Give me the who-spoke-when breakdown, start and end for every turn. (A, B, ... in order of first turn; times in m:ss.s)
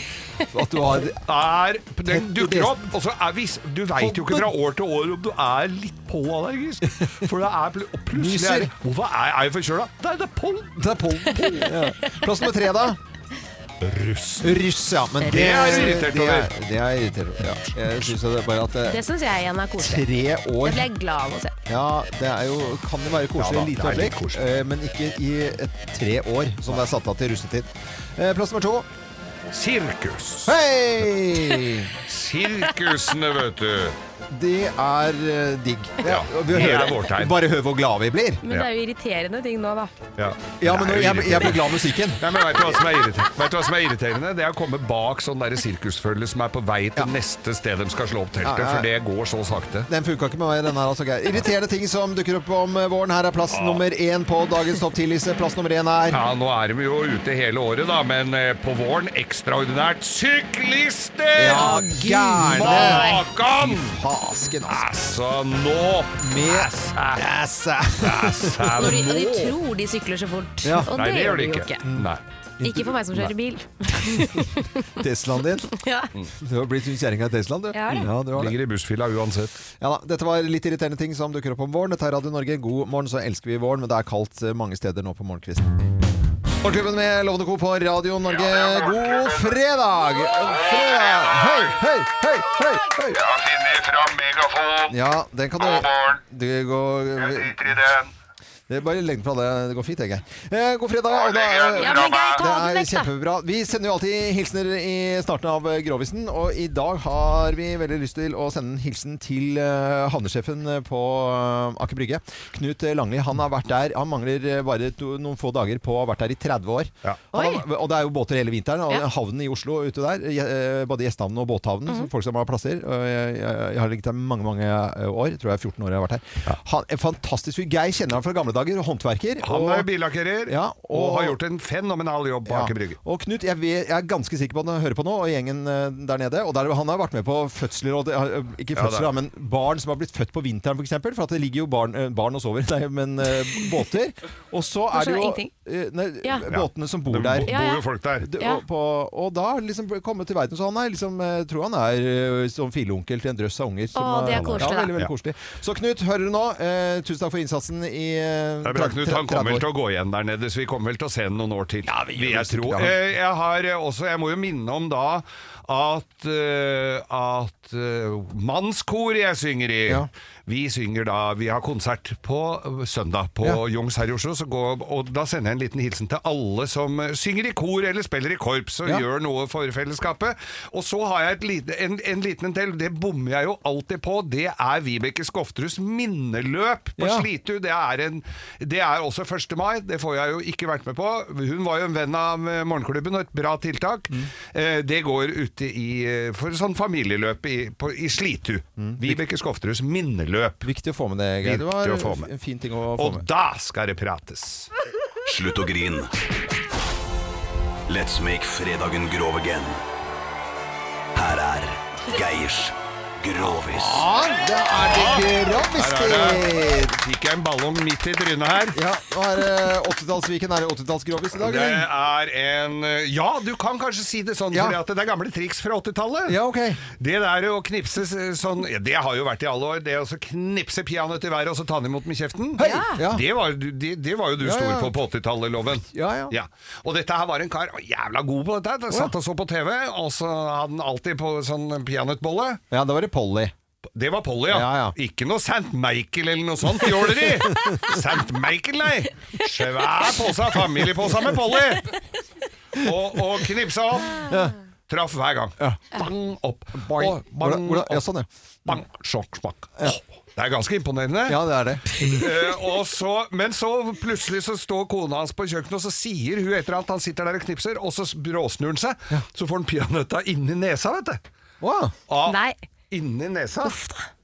0:00.4-0:01.2 A
0:00.9-0:10.8 B
0:02.1-0:02.8 A
0:04.0-0:04.5 A
0:06.8-0:07.2 A
0:08.1-0:08.7 A
0:10.8-0:13.0 A
0:11.2-0:12.3 C
0:13.8-0:14.6 B
0:14.4-0:19.0 A
0:15.2-0:16.5 B
0:15.2-0:15.9 C
0:18.8-0:20.1 C
0:19.8-0:20.9 A
0:20.6-0:21.6 C
0:21.7-0:28.9 A
0:23.4-0:24.5 B
0:29.5-0:30.6 B
0:30.4-0:31.9 A
0:32.0-0:34.0 B
0:34.3-0:38.4 A
0:36.0-0:37.4 B
0:38.4-0:39.9 C
0:40.2-0:49.9 B
0:40.6-0:42.2 A
0:48.4-0:48.9 A
0:49.9-0:56.2 A
0:53.5-0:53.8 B
0:56.1-1:04.0 B
1:01.3-1:05.1 A
1:01.5-1:03.2 C
1:04.6-1:07.2 B
1:06.2-1:08.8 A
1:08.0-1:09.6 B
1:08.8-1:11.8 C
1:10.6-1:10.9 A
1:10.9-1:12.2 B
1:11.8-1:12.1 A
1:12.6-1:15.0 C
1:12.6-1:13.0 A
1:14.9-1:15.7 A
1:15.7-1:16.1 C
1:16.4-1:18.5 A
1:17.7-1:18.1 C
1:17.9-1:19.6 B
1:19.8-1:25.7 A
1:26.6-1:33.2 A
1:28.5-1:29.3 B
1:30.8-1:31.6 B
1:33.1-1:34.9 B
1:34.9-1:37.8 A
1:35.7-1:36.1 B
1:37.3-1:38.1 B
1:38.7-2:09.9 A
1:41.5-1:42.4 B
1:41.7-1:43.1 C
1:57.3-1:57.6 C
2:09.4-2:13.0 B
2:10.4-2:11.4 A
2:12.5-2:27.5 A
2:18.7-2:19.1 B
2:24.9-2:25.5 C
2:26.5-2:28.3 B
2:27.4-2:27.8 C
2:28.2-2:39.6 A
2:33.9-2:34.9 C
2:34.3-2:35.1 B
2:38.6-3:20.7 B
2:41.9-2:43.0 A
3:07.0-3:07.3 A
3:18.8-3:19.2 A
3:20.6-3:23.2 A
3:21.4-3:22.3 B
3:22.9-3:24.7 B
3:25.2-3:26.1 D
3:27.9-3:29.8 D
3:31.1-3:34.0 D
3:33.4-3:34.1 B
3:33.7-3:37.0 A
3:34.8-3:38.8 B
3:38.7-3:41.9 A
3:41.4-4:02.6 B
3:44.5-3:44.8 A
3:46.2-3:46.8 A
3:52.6-3:53.2 A
3:52.6-3:53.0 C
3:54.4-3:55.0 A
3:55.9-3:56.3 A
4:02.7-4:03.5 A
4:03.9-4:11.9 B
4:04.5-4:04.9 A
4:06.8-4:08.0 A
4:12.8-4:14.3 B
4:14.2-4:14.5 A
4:14.9-4:18.0 B
4:16.8-4:18.8 A
4:18.6-4:31.2 B
4:21.3-4:22.2 A
4:31.6-4:31.9 A
4:32.1-4:32.4 B
4:32.2-4:32.6 C
4:32.9-4:33.8 B
4:33.6-4:34.0 C